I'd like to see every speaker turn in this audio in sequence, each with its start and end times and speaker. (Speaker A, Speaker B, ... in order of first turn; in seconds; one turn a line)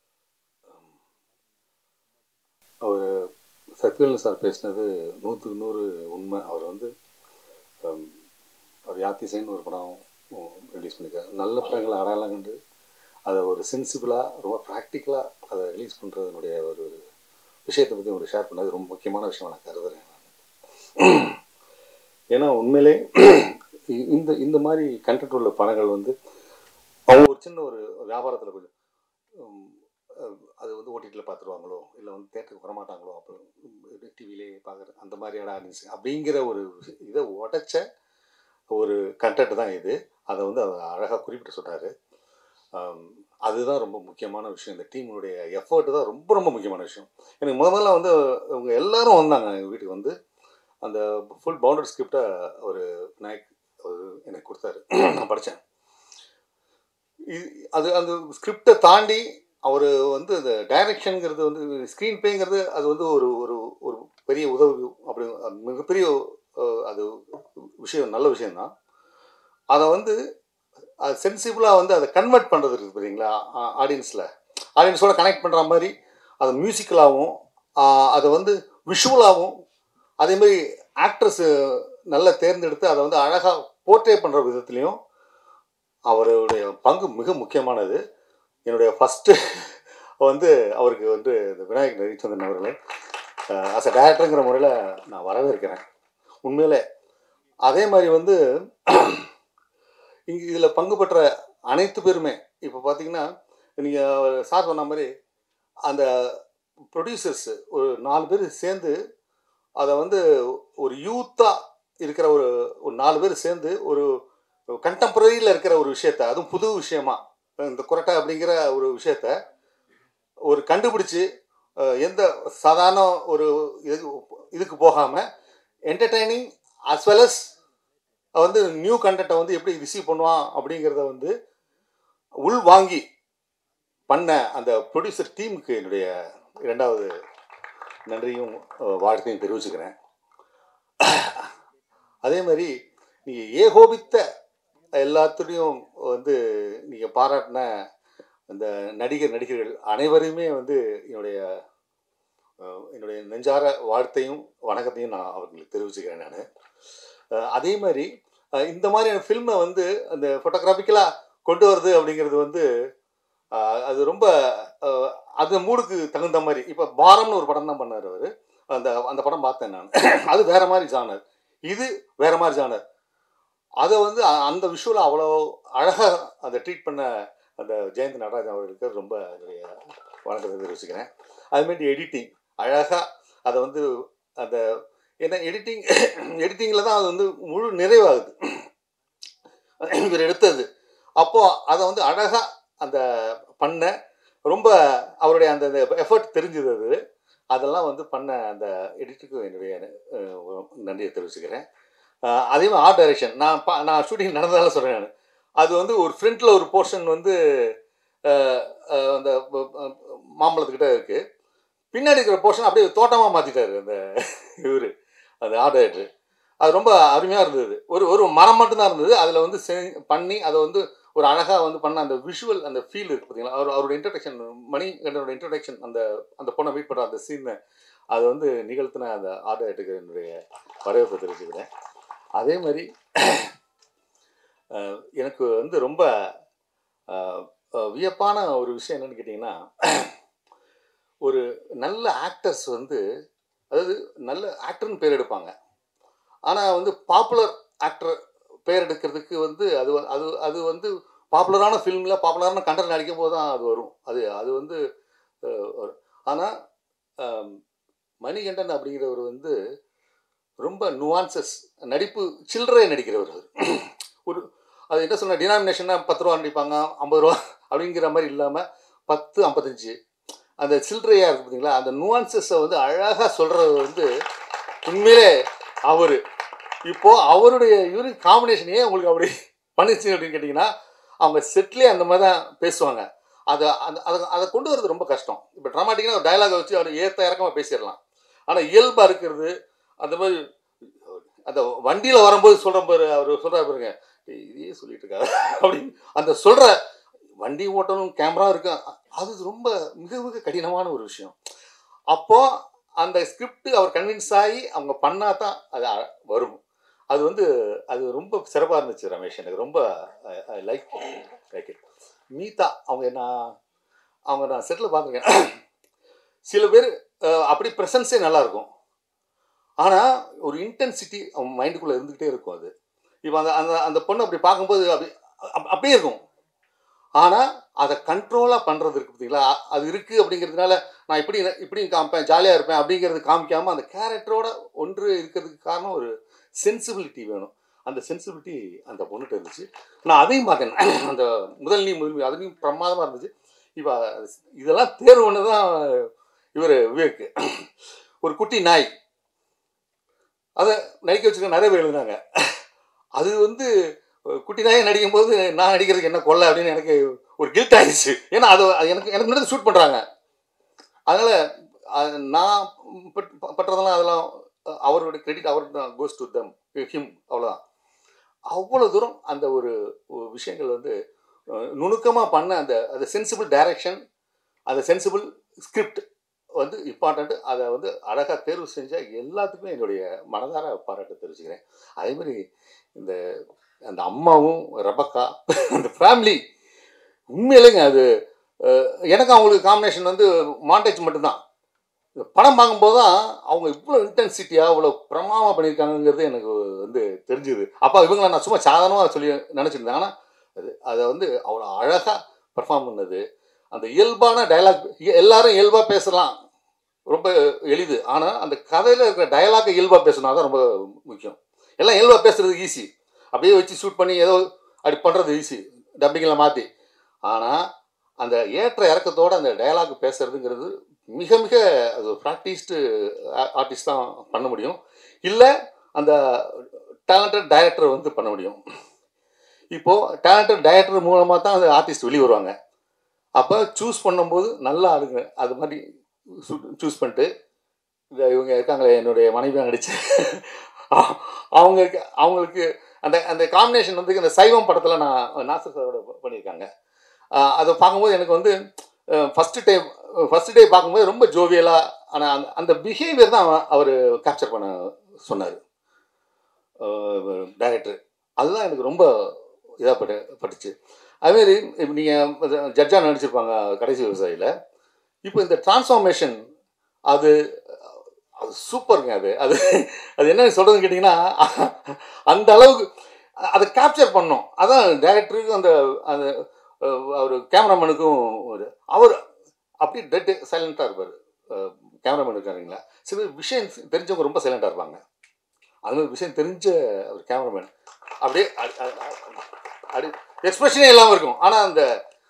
Speaker A: 0.7-1.0
Speaker A: 2.8-3.2
Speaker A: 3.8-6.9
Speaker A: 7.8-8.1
Speaker A: 8.9-12.6
Speaker A: 13.3-17.0
Speaker A: 17.7-20.3
Speaker A: 21.0-21.4
Speaker A: 22.3-26.1
Speaker A: 27.1-28.7
Speaker A: 29.4-37.8
Speaker A: 38.8-41.9
Speaker A: 42.8-50.1
Speaker A: 50.8-55.6
Speaker A: 57.3-67.2
Speaker A: 67.8-68.7
Speaker A: 69.7-70.2
Speaker A: 71.0-74.3
Speaker A: 74.8-79.5
Speaker A: 80.2-85.0
Speaker A: 86.1-88.0
Speaker A: 88.7-92.8
Speaker A: 93.5-95.8
Speaker A: 96.5-96.8
Speaker A: 97.7-99.3
Speaker A: 100.3-103.3
Speaker A: 103.8-105.1
Speaker A: 105.9-106.4
Speaker A: 106.9-109.0
Speaker A: 109.8-110.2
Speaker A: 110.8-114.1
Speaker A: 114.8-119.3
Speaker A: 120.5-121.2
Speaker A: 121.8-125.2
Speaker A: 125.9-127.5
Speaker A: 128.4-131.3
Speaker A: 132.5-133.0
Speaker A: 134.1-136.1
Speaker A: 136.7-137.1
Speaker A: 138.1-139.9
Speaker A: 141.0-141.5
Speaker A: 142.2-142.7
Speaker A: 143.3-144.2
Speaker A: 145.0-147.7
Speaker A: 148.5-151.5
Speaker A: 152.6-156.4
Speaker A: 157.4-158.1
Speaker A: 158.6-162.7
Speaker A: 163.5-172.8
Speaker A: 173.8-183.8
Speaker A: 184.4-184.7
Speaker A: 185.2-188.6
Speaker A: 189.8-190.7
Speaker A: 191.2-193.9
Speaker A: 194.5-197.0
Speaker A: 197.5-201.6
Speaker A: 202.3-207.7
Speaker A: 208.3-211.2
Speaker A: 211.9-214.9
Speaker A: 215.4-216.1
Speaker A: 216.6-227.6
Speaker A: 228.1-231.7
Speaker A: 232.4-233.5
Speaker A: 234.7-236.1
Speaker A: 237.1-240.1
Speaker A: 241.2-243.0
Speaker A: 243.7-245.5
Speaker A: 246.5-248.2
Speaker A: 248.7-254.8
Speaker A: 255.4-256.5
Speaker A: 257.2-257.6
Speaker A: 258.2-259.6
Speaker A: 260.6-269.9
Speaker A: 270.6-274.1
Speaker A: 274.9-275.3
Speaker A: 275.9-276.2
Speaker A: 276.9-290.4
Speaker A: 291.1-296.8
Speaker A: 297.4-301.3
Speaker A: 302.1-302.5
Speaker A: 303.0-306.6
Speaker A: 307.1-311.8
Speaker A: 312.4-313.5
Speaker A: 314.3-315.5
Speaker A: 316.5-318.7
Speaker A: 319.8-322.7
Speaker A: 323.2-326.2
Speaker A: 327.2-347.7
Speaker A: 348.2-348.9
Speaker A: 350.6-352.2
Speaker A: 353.2-353.7
Speaker A: 354.3-360.0
Speaker A: 361.1-361.4
Speaker A: 361.9-367.6
Speaker A: 368.5-370.9
Speaker A: 371.6-374.0
Speaker A: 374.7-376.0
Speaker A: 376.6-382.4
Speaker A: 383.9-386.4
Speaker A: 387.4-388.1
Speaker A: 388.6-391.4
Speaker A: 392.3-403.2
Speaker A: 403.7-406.3
Speaker A: 407.1-416.7
Speaker A: 417.3-417.6
Speaker A: 418.2-428.6
Speaker A: 429.7-432.5
Speaker A: 433.4-435.8
Speaker A: 436.3-437.3
Speaker A: 438.2-446.7
Speaker A: 447.4-448.5
Speaker A: 449.1-454.7
Speaker A: 455.2-455.6
Speaker A: 456.8-459.1
Speaker A: 459.8-460.7
Speaker A: 461.3-464.5
Speaker A: 465.3-466.4
Speaker A: 467.1-467.8
Speaker A: 468.4-472.9
Speaker A: 473.5-479.2
Speaker A: 479.8-485.0
Speaker A: 485.9-487.7
Speaker A: 488.2-489.4
Speaker A: 489.9-491.9